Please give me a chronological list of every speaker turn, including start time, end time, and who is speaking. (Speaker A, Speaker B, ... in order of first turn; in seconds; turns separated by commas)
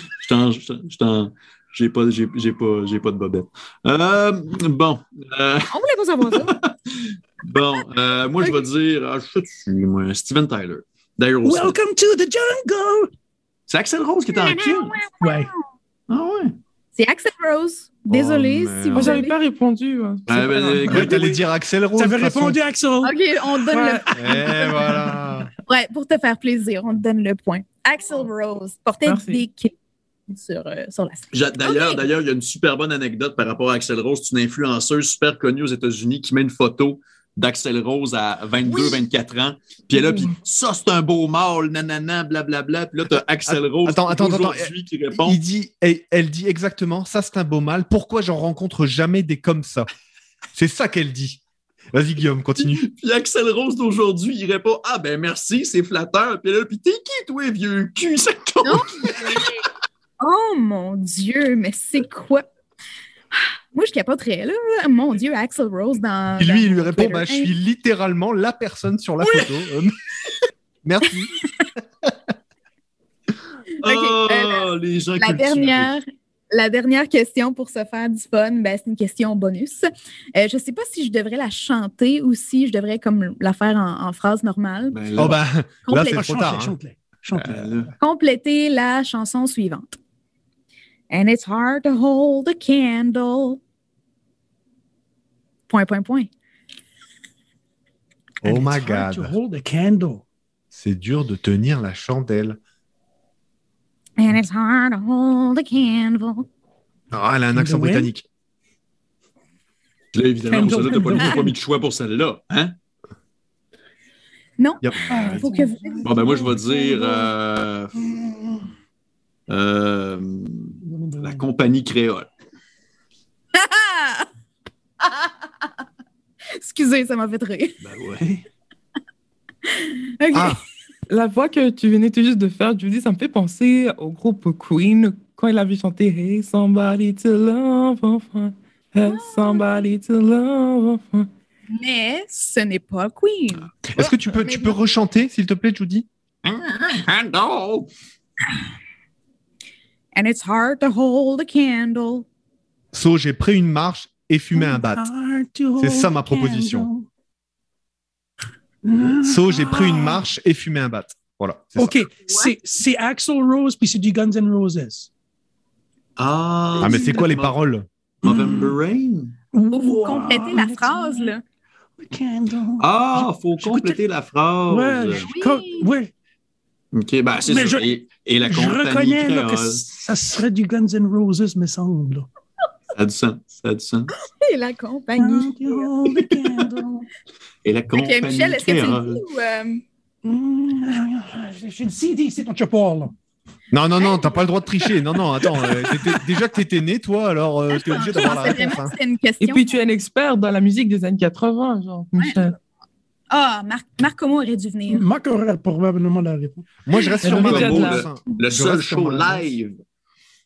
Speaker A: 0.2-11.8, Speaker B: 5.7-6.5, Speaker C: 11.4-13.1, Speaker A: 13.7-15.0, Speaker B: 14.3-15.5, Speaker C: 15.2-15.5, Speaker A: 16.1-16.6, Speaker B: 16.9-19.4, Speaker D: 18.1-19.2, Speaker E: 18.9-21.1, Speaker A: 20.3-21.2, Speaker D: 20.9-22.6, Speaker C: 21.0-21.4, Speaker C: 22.0-25.1, Speaker B: 23.0-24.7, Speaker D: 24.1-25.5, Speaker B: 25.6-29.7, Speaker E: 29.0-29.4, Speaker B: 30.3-32.0, Speaker A: 31.3-45.4, Speaker E: 40.0-40.3, Speaker D: 43.5-49.9, Speaker D: 50.5-51.4, Speaker D: 51.9-52.8, Speaker A: 52.6-59.4, Speaker B: 58.6-59.6, Speaker B: 60.2-62.5, Speaker B: 63.7-67.5, Speaker D: 66.4-70.0, Speaker D: 70.8-71.3, Speaker B: 73.8-86.3, Speaker A: 73.8-75.9, Speaker A: 84.9-85.4, Speaker D: 85.2-86.8, Speaker C: 85.9-87.9, Speaker A: 87.4-87.9, Speaker B: 88.0-90.0, Speaker B: 91.1-93.6, Speaker B: 95.7-96.3, Speaker C: 98.4-100.2, Speaker D: 98.4-99.3, Speaker D: 100.7-102.6, Speaker B: 104.2-106.5, Speaker D: 107.1-108.2, Speaker C: 107.5-108.1, Speaker A: 110.1-112.7, Speaker C: 110.4-111.5, Speaker B: 114.6-116.1, Speaker D: 114.8-115.4, Speaker C: 115.0-117.3, Speaker A: 116.0-118.0, Speaker C: 118.0-118.6, Speaker A: 119.5-122.3, Speaker C: 120.8-121.4, Speaker B: 123.5-124.3, Speaker B: 126.5-127.8, Speaker A: 127.8-128.5, Speaker B: 129.8-130.6, Speaker D: 130.3-130.6, Speaker E: 131.1-141.3, Speaker B: 139.1-139.8, Speaker B: 141.7-144.8, Speaker D: 143.9-146.1, Speaker A: 146.4-147.9, Speaker B: 150.1-152.2, Speaker D: 152.9-155.1, Speaker C: 154.5-157.1, Speaker D: 155.8-156.9, Speaker C: 158.8-160.2, Speaker D: 159.2-162.0, Speaker C: 161.8-165.1, Speaker A: 166.2-167.6, Speaker C: 166.8-167.3, Speaker D: 166.8-167.9, Speaker A: 168.2-169.3, Speaker C: 168.2-168.8, Speaker C: 169.5-171.3, Speaker B: 169.7-171.4, Speaker C: 172.0-174.0, Speaker A: 172.8-175.3, Speaker C: 174.7-176.1, Speaker B: 175.2-175.9, Speaker A: 176.9-179.9, Speaker C: 177.4-177.9, Speaker C: 178.4-182.3, Speaker A: 182.9-184.1, Speaker B: 184.4-185.9, Speaker C: 185.2-187.1, Speaker A: 187.6-189.2, Speaker B: 187.9-189.8, Speaker C: 190.2-193.1, Speaker D: 193.7-198.9, Speaker B: 194.0-194.4, Speaker B: 197.7-199.8, Speaker E: 199.4-202.6, Speaker B: 202.2-202.5, Speaker B: 203.3-205.1, Speaker C: 204.9-206.7, Speaker D: 206.8-209.4, Speaker E: 207.2-208.1, Speaker A: 207.2-209.8